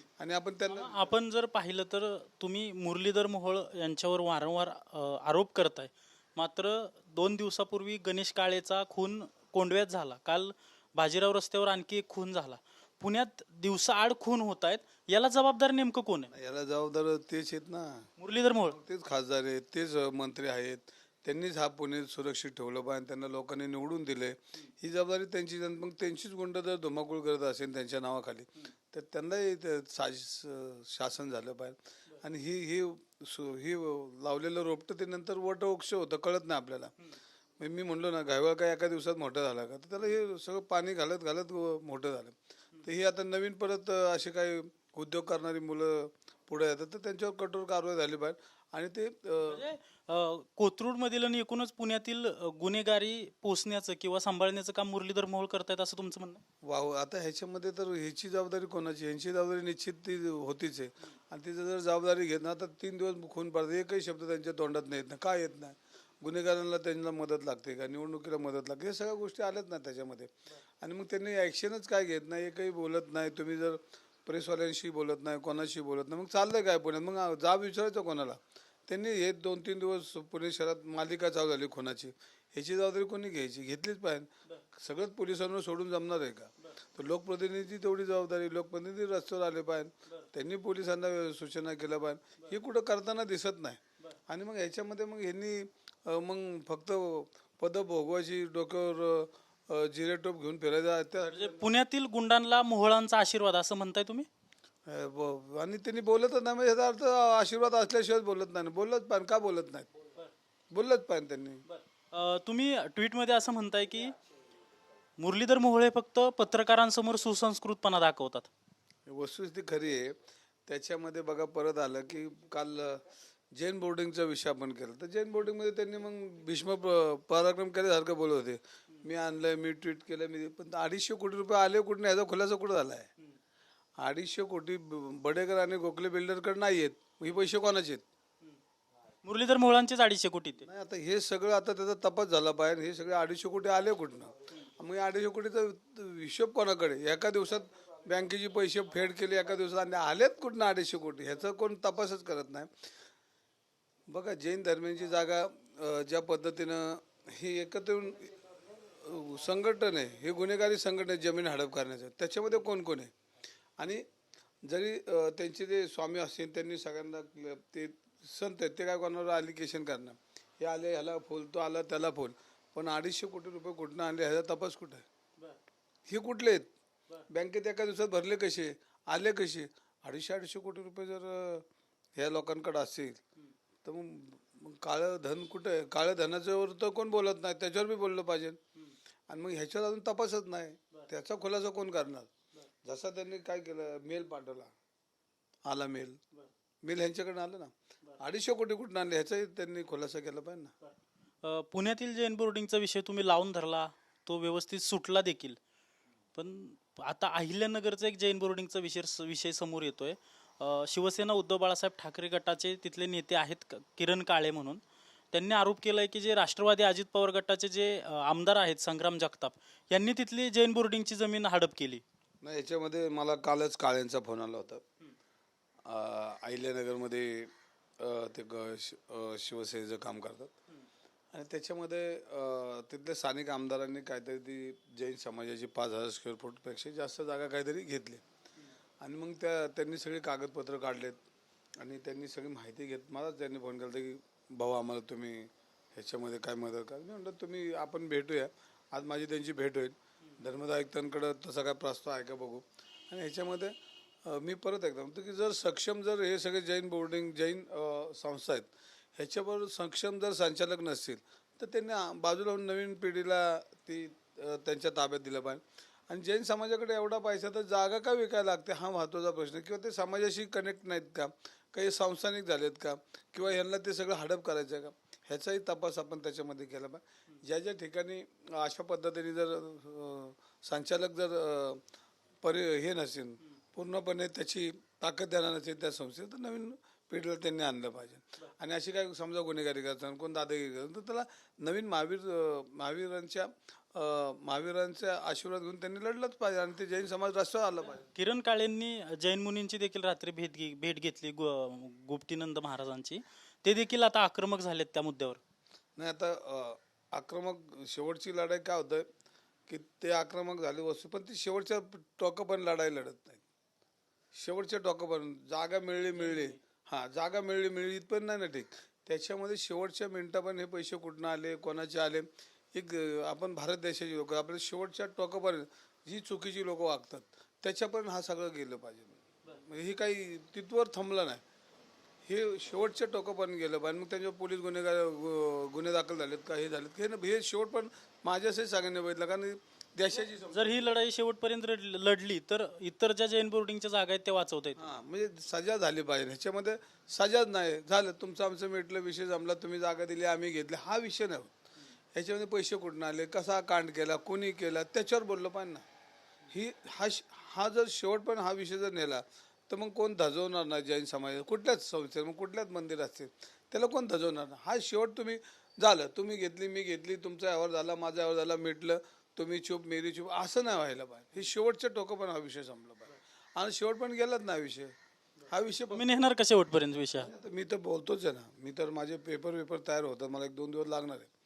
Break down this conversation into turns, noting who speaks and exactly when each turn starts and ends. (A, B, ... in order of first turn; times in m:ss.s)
0:00.2-0:01.1 A
0:00.7-0:16.3 B
0:16.3-0:18.1 A
0:18.2-0:18.8 B
0:18.7-0:36.9 A
0:37.6-0:49.6 A
0:49.5-0:56.4 B
0:56.6-1:41.7 A
1:41.3-1:44.3 B
1:44.9-1:49.9 A
1:50.7-1:51.6 A
1:51.7-1:54.2 B
1:55.2-1:58.5 B
1:59.1-2:13.1 A
2:14.0-2:18.0 A
2:19.2-2:20.7 B
2:20.7-2:32.7 A
2:34.1-2:43.1 A
2:43.8-2:44.0 A
2:44.7-2:55.1 A
2:56.1-2:56.7 A
2:57.3-3:03.2 A
3:03.8-3:08.6 A
3:09.3-3:12.3 A
3:12.8-3:14.7 A
3:15.7-3:16.2 A
3:16.8-3:20.7 A
3:21.4-3:25.6 B
3:26.4-3:34.8 B
3:35.3-3:42.0 B
3:42.4-3:44.8 A
3:45.9-3:50.5 A
3:51.3-3:58.2 A
3:59.0-4:01.2 A
4:01.8-4:41.8 A
4:42.4-4:58.1 A
4:58.1-5:05.4 B
5:06.0-5:09.1 A
5:09.7-5:13.4 A
5:14.3-5:31.4 A
5:32.2-5:40.8 A
5:40.5-5:44.9 B
5:44.8-5:51.6 A
5:52.2-5:55.8 A
5:56.5-6:14.9 A
6:15.5-6:16.0 A
6:15.9-6:17.3 B
6:17.2-6:21.3 A